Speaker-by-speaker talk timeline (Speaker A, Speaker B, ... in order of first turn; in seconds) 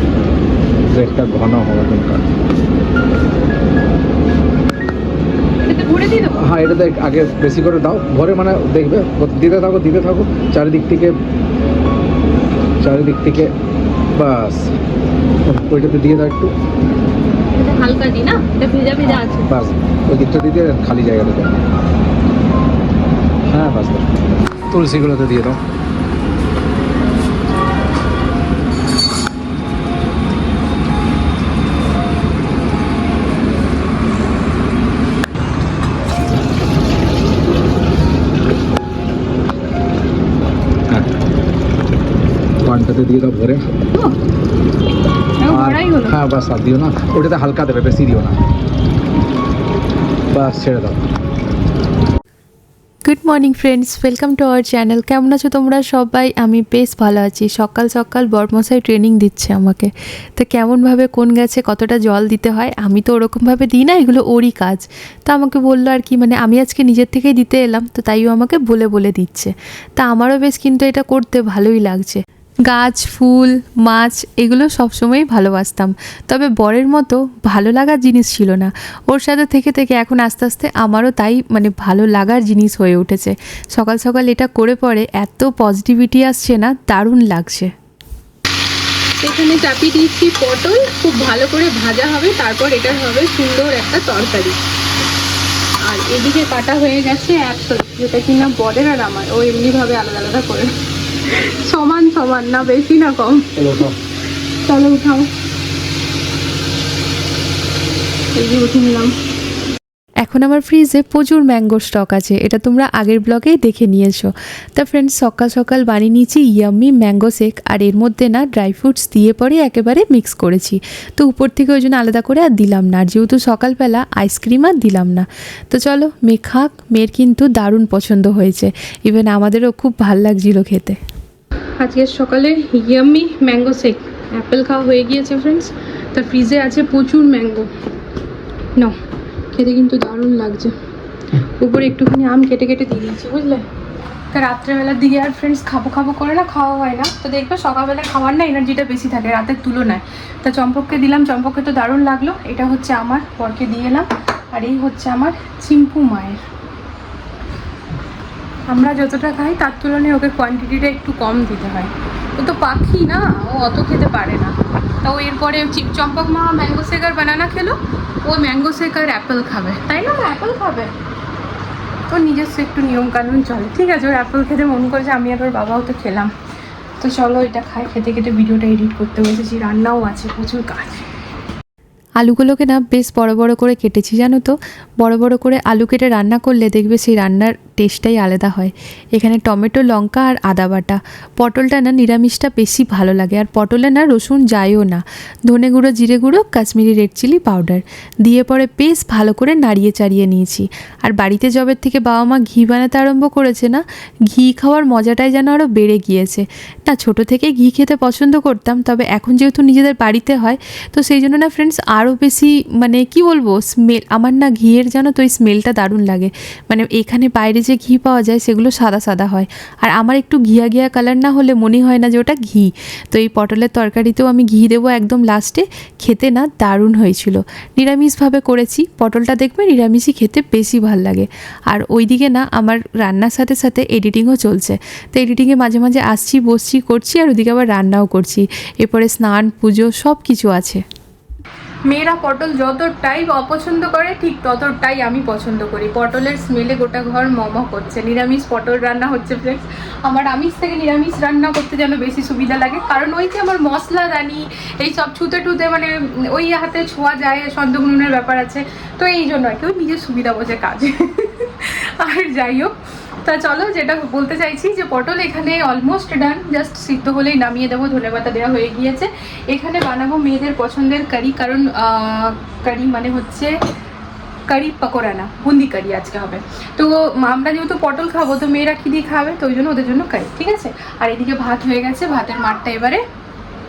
Speaker A: 0.9-2.4, 6.4-11.2, 12.8-13.5, 14.1-14.7, 15.4-16.5, 19.2-21.6, 23.5-24.2, 24.7-25.6, 42.6-43.6, 45.5-48.4, 50.3-51.0, 103.6-104.0
Speaker B: 5.7-6.4, 17.5-19.5, 45.4-46.2, 89.2-94.6, 95.8-103.5, 104.6-105.3, 108.3-109.1, 131.8-137.7, 139.5-140.8, 141.4-143.7, 144.3-156.4, 158.7-170.9, 172.1-176.3, 177.0-181.1, 241.9-273.6, 274.5-283.0
Speaker C: 53.1-87.7, 110.2-131.0, 182.2-240.8